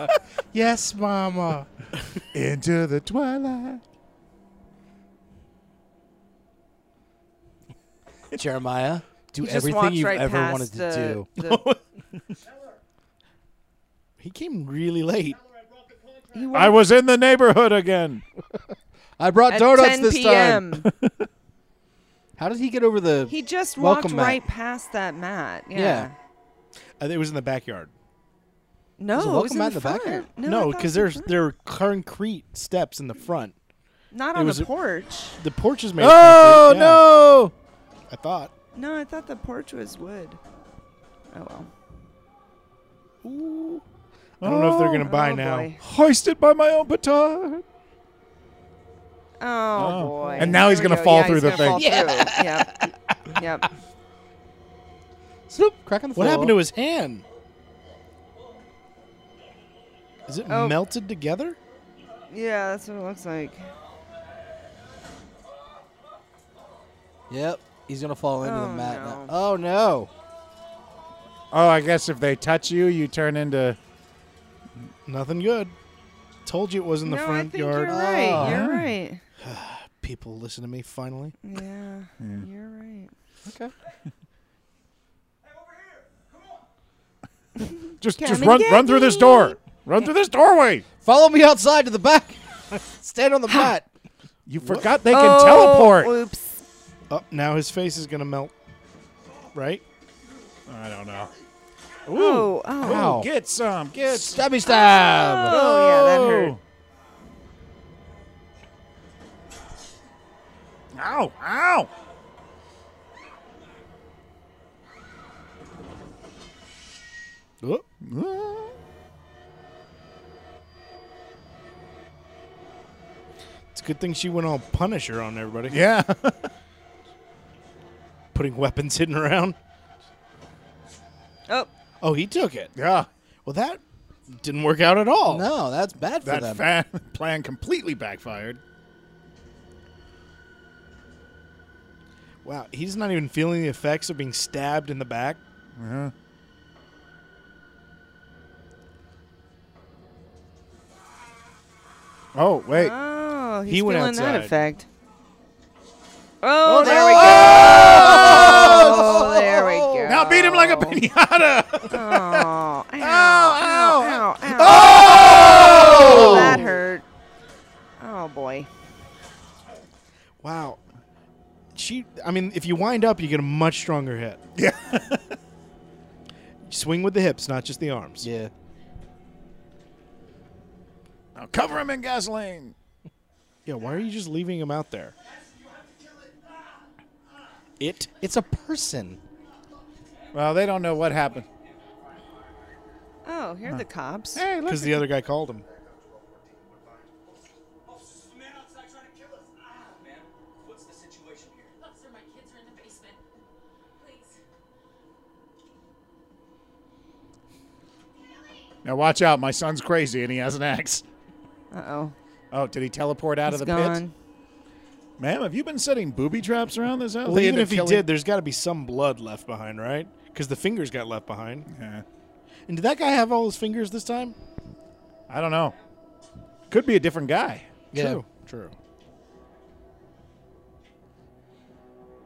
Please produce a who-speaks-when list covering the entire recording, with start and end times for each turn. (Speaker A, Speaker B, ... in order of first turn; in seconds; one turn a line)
Speaker A: 0.5-1.7
Speaker B: 2.3-3.8
Speaker A: 8.3-11.3
Speaker C: 9.4-11.6
Speaker D: 11.4-11.8
Speaker D: 14.2-15.4
Speaker C: 16.3-16.8
Speaker B: 16.5-18.2
Speaker A: 19.2-20.8
Speaker C: 19.5-20.9
Speaker B: 20.9-21.3
Speaker A: 22.4-24.4
Speaker C: 23.3-26.1
Speaker A: 25.7-26.1
Speaker D: 27.0-27.9
Speaker C: 29.0-31.4
Speaker A: 29.1-30.3
Speaker D: 30.4-33.5
Speaker C: 34.1-35.4
Speaker D: 34.4-34.7
Speaker D: 35.4-37.0
Speaker B: 36.0-37.5
Speaker D: 38.1-38.5
Speaker C: 38.7-40.4
Speaker C: 41.3-41.7
Speaker D: 43.2-43.8
Speaker B: 44.4-45.1
Speaker D: 44.4-45.7
Speaker C: 45.0-45.8
Speaker B: 45.8-47.6
Speaker C: 49.4-52.7
Speaker B: 49.8-51.8
Speaker A: 50.4-50.6
Speaker A: 51.8-52.5
Speaker C: 53.4-53.7
Speaker A: 55.5-56.6
Speaker D: 56.1-57.2
Speaker D: 60.3-61.6
Speaker C: 60.5-60.8
Speaker C: 62.3-63.7
Speaker A: 67.3-70.1
Speaker C: 68.4-69.3
Speaker B: 71.5-73.8
Speaker D: 75.1-75.7
Speaker D: 76.5-78.0
Speaker C: 77.0-79.2
Speaker A: 77.9-78.7
Speaker B: 78.4-78.9
Speaker D: 79.4-81.4
Speaker C: 81.4-83.1
Speaker B: 82.2-82.5
Speaker A: 83.5-83.7
Speaker E: 85.5-86.5
Speaker B: 88.0-90.8
Speaker C: 88.2-89.6
Speaker A: 91.0-93.9
Speaker B: 94.5-96.1
Speaker C: 95.1-96.6
Speaker D: 97.1-98.5
Speaker D: 99.5-99.8
Speaker B: 100.7-101.3
Speaker B: 102.1-104.5
Speaker C: 102.1-103.2
Speaker A: 102.8-103.3
Speaker A: 104.1-105.6
Speaker C: 104.7-106.6
Speaker B: 105.5-106.6
Speaker B: 110.9-111.9
Speaker D: 117.6-117.9
Speaker B: 118.0-118.8
Speaker D: 123.7-125.8
Speaker B: 125.7-126.5
Speaker D: 128.3-129.6
Speaker D: 132.0-132.7
Speaker B: 132.7-133.1
Speaker D: 133.4-135.5
Speaker A: 135.2-136.7
Speaker B: 136.2-138.6
Speaker D: 142.4-145.4
Speaker B: 145.8-146.1
Speaker B: 152.3-152.9
Speaker C: 152.7-154.9
Speaker D: 153.7-154.6
Speaker C: 156.4-161.0
Speaker B: 156.7-159.3
Speaker A: 156.8-160.1
Speaker B: 160.1-166.6
Speaker C: 161.9-167.1
Speaker A: 165.2-166.6
Speaker C: 168.0-168.7
Speaker D: 170.4-170.8
Speaker D: 171.7-174.4
Speaker B: 174.6-175.2
Speaker D: 176.7-178.3
Speaker A: 178.2-178.5
Speaker B: 181.4-182.7
Speaker D: 183.7-185.2
Speaker D: 187.8-188.1
Speaker A: 188.2-189.2
Speaker B: 190.3-191.5
Speaker C: 193.2-194.4
Speaker B: 193.7-195.1
Speaker D: 194.7-195.6
Speaker E: 195.6-197.2
Speaker E: 198.0-201.7
Speaker F: 201.8-203.2
Speaker F: 203.9-204.4
Speaker B: 208.8-211.0
Speaker C: 211.7-212.2
Speaker B: 212.5-214.0
Speaker C: 213.5-214.1
Speaker B: 215.2-218.1
Speaker D: 217.2-221.7
Speaker B: 221.7-222.1
Speaker D: 222.7-224.3
Speaker B: 225.3-225.8
Speaker B: 226.7-227.7
Speaker A: 227.9-228.2
Speaker D: 227.9-228.7